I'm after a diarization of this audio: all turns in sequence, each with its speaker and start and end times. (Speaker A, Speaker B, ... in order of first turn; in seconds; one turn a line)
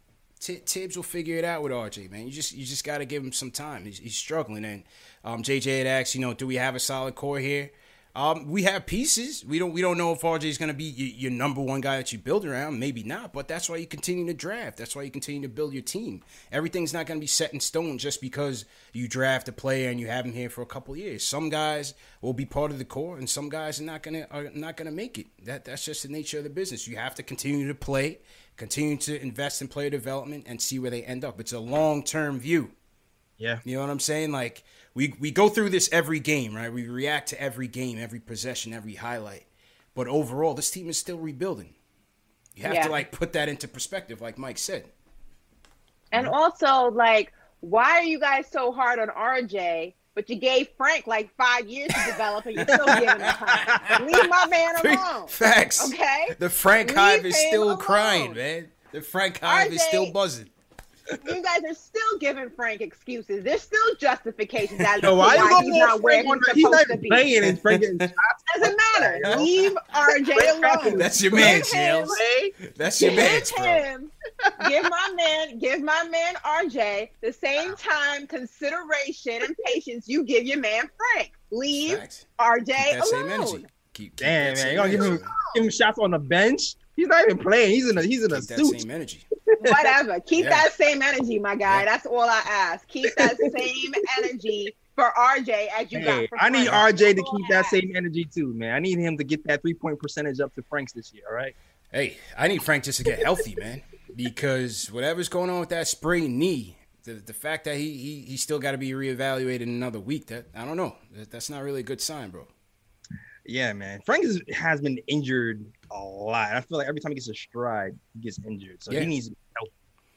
Speaker A: 0.4-32.7
Speaker A: 33.6-41.7
Speaker A: 42.5-44.9
Speaker B: 42.6-43.0
Speaker B: 46.1-56.3
Speaker A: 52.7-54.0
Speaker C: 53.7-54.0
Speaker A: 54.8-60.5
Speaker B: 56.8-58.4
Speaker B: 59.4-60.1
Speaker B: 61.2-67.2
Speaker C: 65.0-72.5
Speaker A: 65.1-65.7
Speaker A: 67.4-68.1
Speaker B: 68.5-72.2
Speaker A: 70.9-73.8
Speaker B: 73.0-83.7
Speaker A: 81.7-82.2
Speaker A: 82.8-85.3
Speaker C: 84.2-88.8
Speaker A: 88.3-89.3
Speaker B: 89.6-97.8
Speaker A: 90.4-90.6
Speaker C: 95.9-101.5
Speaker A: 101.9-112.5
Speaker C: 113.4-119.7